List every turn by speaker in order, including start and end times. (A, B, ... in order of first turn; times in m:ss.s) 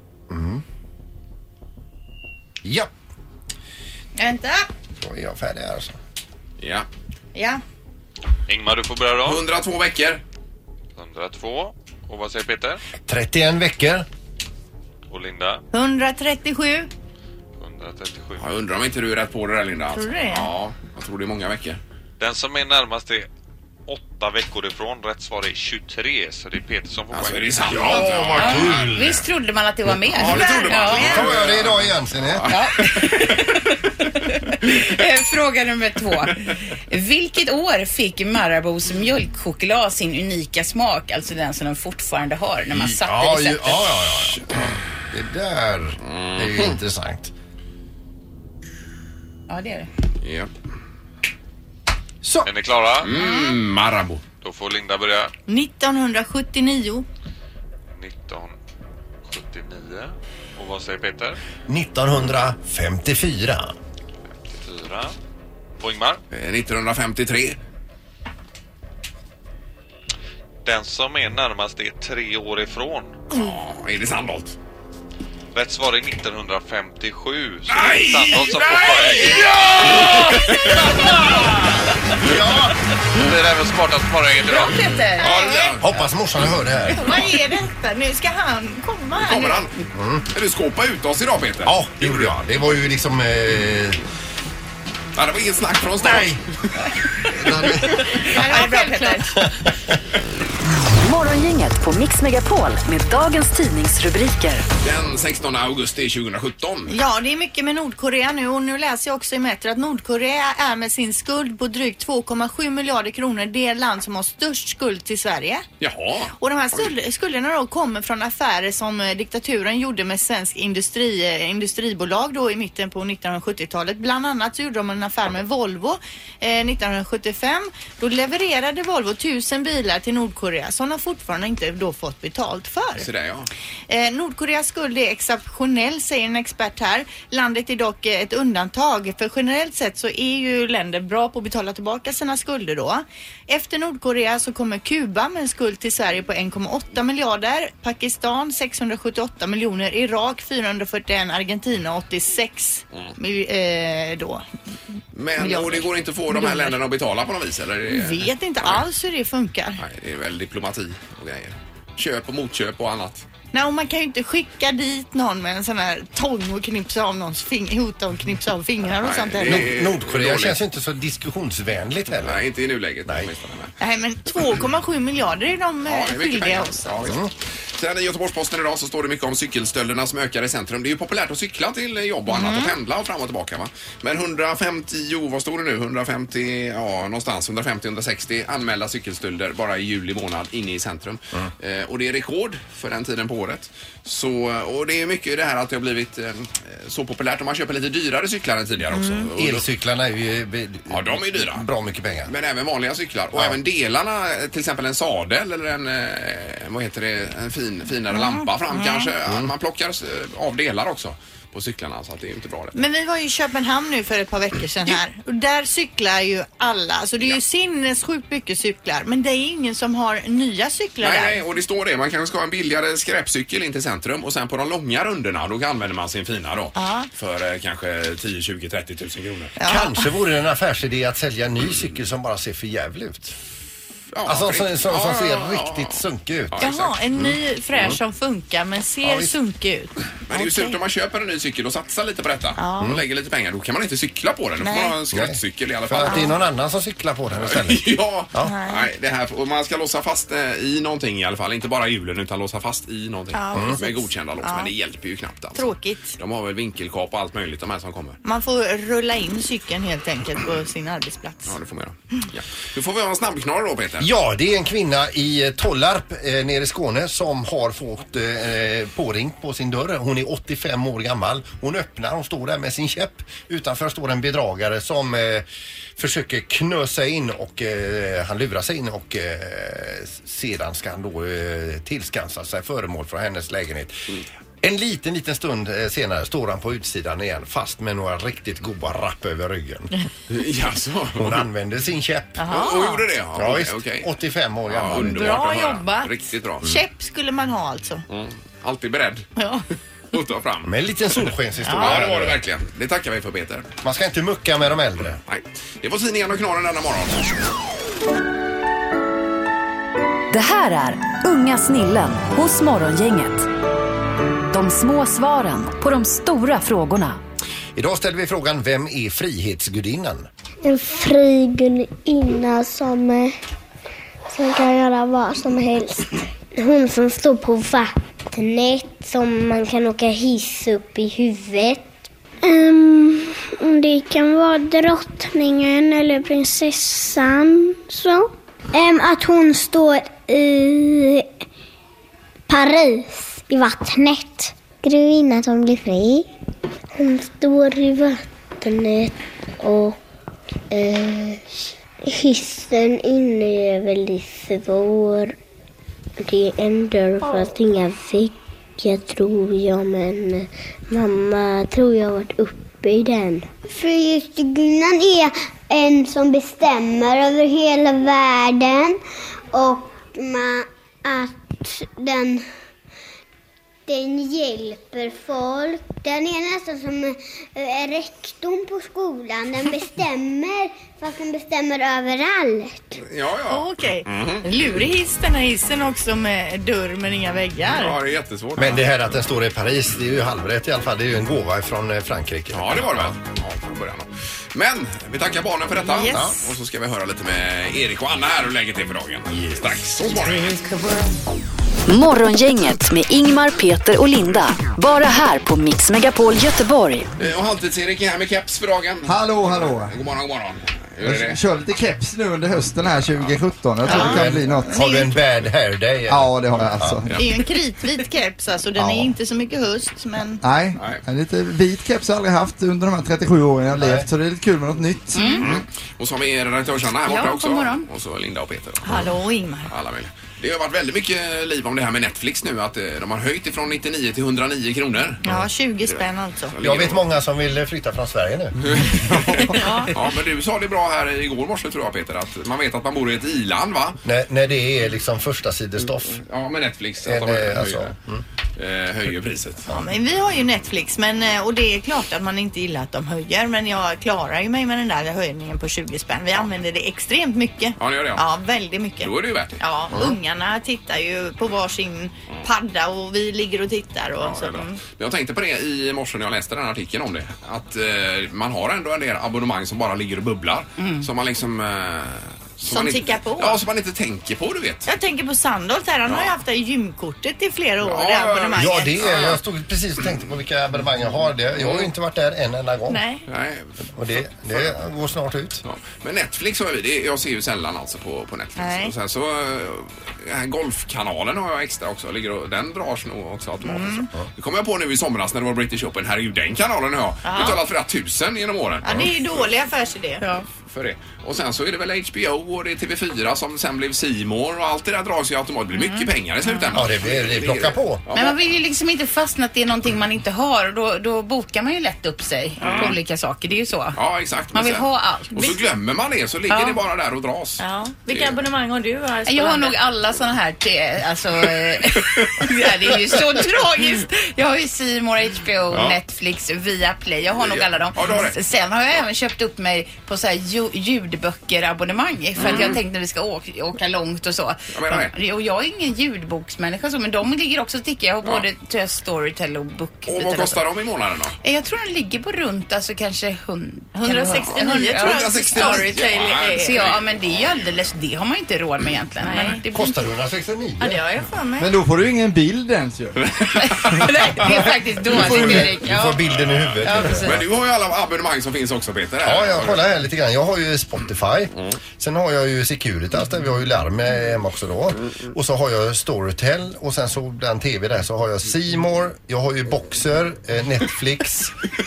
0:00.3-0:00.6 A
0:02.6-0:02.9 A
0:04.2-0:04.7 B
0:05.0-0:06.0 A
0:06.6-0:06.9 C
0:07.3-0:07.6 B
0:08.5-0:09.4 D
0:09.2-0:10.2 C
0:11.0-0:12.8 D
0:13.1-0:14.0 A
0:15.1-0:15.6 D
0:15.7-0:16.9 B
0:17.6-0:18.4 D
0:18.4-0:21.8 C
0:19.9-0:20.5 B
0:22.2-0:23.3 D
0:23.9-0:28.0 D
0:27.1-0:29.1 C
0:27.6-0:29.2 A
0:28.4-0:31.2 E
0:30.0-0:33.6 C
0:30.1-0:32.7 A
0:30.3-0:31.2 B
0:32.5-0:33.6 E
0:34.6-0:43.8 E
0:42.7-0:47.3 A
0:46.0-0:46.8 C
0:49.5-0:49.9 E
0:50.2-0:50.5 C
0:52.2-0:52.5 A
0:52.4-0:53.1 D
0:53.0-0:54.2 C
0:53.1-0:53.5 B
0:54.4-0:55.3 D
0:55.5-0:57.0 B
0:57.9-0:58.5 D
0:59.3-1:01.4 D
1:01.7-1:03.7 A
1:04.5-1:05.2 D
1:05.8-1:06.2 D
1:06.3-1:07.6 C
1:10.6-1:13.2 D
1:13.3-1:14.6 C
1:15.5-1:19.7 D
1:17.7-1:21.5 C
1:22.2-1:22.7 A
1:23.1-1:25.0 D
1:24.4-1:25.3 E
1:25.1-1:25.8 B
1:25.2-1:26.0 C
1:25.8-1:27.2 A
1:26.9-1:29.7 B
1:29.2-1:29.7 C
1:29.9-1:30.2 A
1:30.3-1:32.4 C
1:31.6-1:34.0 A
1:35.1-1:36.6 C
1:36.0-1:36.4 A
1:37.3-1:38.4 A
1:38.0-1:39.4 B
1:38.2-1:39.3 E
1:41.0-1:44.6 F
1:44.8-1:47.0 C
1:46.9-1:55.6 B
1:55.8-1:56.9 C
1:56.4-2:13.1 B
2:13.0-2:13.5 C
2:13.9-2:34.4 B
2:35.1-2:38.8 C
2:35.4-2:36.8 B
2:37.9-2:39.8 B
2:39.8-2:43.2 C
2:43.5-2:49.7 B
2:49.0-2:50.6 C
2:49.4-2:52.4 A
2:52.2-2:53.7 C
2:53.0-2:53.3 A
2:53.8-2:57.1 B
2:55.8-3:19.7 C
2:57.0-2:57.3 A
3:02.3-3:02.7 B
3:18.9-3:19.3 B
3:19.4-3:22.3 A
3:20.9-3:21.6 C
3:22.3-3:32.7 C
3:23.3-3:23.6 A
3:28.1-3:29.1 B
3:32.7-3:41.4 B
3:41.0-3:49.5 C
3:46.8-3:47.1 B
3:49.6-3:50.1 B
3:49.6-3:53.3 A
3:54.1-3:57.0 C
3:54.2-3:56.6 A
3:56.6-4:00.8 B
3:57.2-3:58.0 A
3:59.0-3:59.4 A
4:00.3-4:06.4 C
4:02.6-4:03.0 B
4:04.6-4:04.9 B
4:05.1-4:08.5 A
4:07.3-4:18.2 C
4:08.4-4:08.9 B
4:13.3-4:14.7 B
4:15.5-4:16.2 B
4:18.2-4:21.6 B
4:21.5-4:24.1 C
4:24.0-4:35.4 A
4:36.0-4:49.9 A
4:50.3-4:51.4 C
4:51.2-4:52.5 A
4:52.4-4:53.0 B
4:52.5-4:54.1 C
4:53.3-4:55.4 A
4:54.7-4:56.7 C
4:54.9-4:56.1 B
4:56.6-4:58.0 B
4:58.1-4:59.3 C
4:59.4-4:59.6 B
5:00.1-5:03.7 C
5:00.6-5:02.4 A
5:01.6-5:02.1 B
5:03.8-5:05.2 A
5:05.3-5:07.5 C
5:10.3-5:13.5 F
5:14.5-5:17.2 F
5:17.8-5:20.3 A
5:20.6-5:23.4 G
5:24.3-5:41.3 G
5:42.5-5:46.3 G
5:46.9-5:50.0 G
5:50.7-5:55.4 G
5:56.2-6:09.0 G
6:09.5-6:12.5 G
6:13.9-6:23.0 G
6:23.0-6:24.4 C
6:23.5-6:28.0 B
6:27.7-6:28.9 C
6:28.6-6:33.1 A
6:32.5-6:40.6 C
6:35.8-6:36.4 B
6:39.3-6:40.0 A
6:41.9-6:47.1 F
6:47.2-6:51.4 C
6:49.0-6:50.0 H
6:51.0-6:54.7 H
6:53.1-6:53.4 C
6:53.8-6:55.1 B
6:53.9-6:57.0 A
6:56.1-6:57.1 H
6:57.1-7:00.4 B
7:00.4-7:05.5 H
7:03.8-7:04.1 A
7:05.1-7:05.4 E
7:05.4-7:09.1 C
7:07.1-7:07.8 B
7:08.8-7:09.7 B
7:09.7-7:15.2 C
7:15.2-7:16.5 B
7:16.5-7:17.0 C
7:16.6-7:18.6 A
7:18.6-7:24.0 C
7:19.5-7:19.9 B
7:24.0-7:26.2 A
7:26.1-7:27.9 C
7:27.0-7:28.2 A
7:28.6-7:29.7 C
7:29.7-7:44.8 B
7:37.8-7:38.2 C
7:39.0-7:40.1 C
7:44.2-7:54.9 C
7:50.8-7:51.0 E
7:52.7-7:53.6 B
7:54.8-7:58.9 B
7:56.0-7:56.3 C
7:57.8-7:59.4 C
7:58.6-8:03.0 A
8:01.6-8:01.9 C
8:02.9-8:03.2 B
8:03.3-8:03.8 C
8:03.9-8:05.6 A
8:04.5-8:04.8 C
8:05.6-8:19.2 C
8:08.6-8:08.9 B
8:13.6-8:14.1 B
8:17.2-8:17.6 B
8:18.8-8:20.2 B
8:20.2-8:20.4 E
8:20.6-8:28.4 C
8:26.7-8:28.0 A
8:28.1-8:34.0 E
8:32.6-8:32.9 C
8:32.6-8:32.9 B
8:33.9-8:38.4 C
8:34.5-8:35.5 E
8:36.5-8:36.8 E
8:37.6-8:39.8 B
8:39.2-9:00.6 E
8:45.7-8:46.0 C
8:47.3-8:48.4 C
8:52.4-8:52.8 C
8:52.4-8:52.7 B
8:54.7-8:55.1 C
9:00.0-9:01.3 C
9:01.4-9:10.0 E
9:03.9-9:06.8 B
9:04.5-9:07.6 C
9:09.2-9:09.6 B
9:09.7-9:11.0 A
9:10.8-9:11.7 B
9:11.6-9:13.2 H
9:13.2-9:14.1 C
9:13.6-9:16.2 E
9:15.1-9:17.4 A
9:15.1-9:15.7 H
9:16.2-9:19.8 C
9:16.8-9:17.2 E
9:19.2-9:31.5 A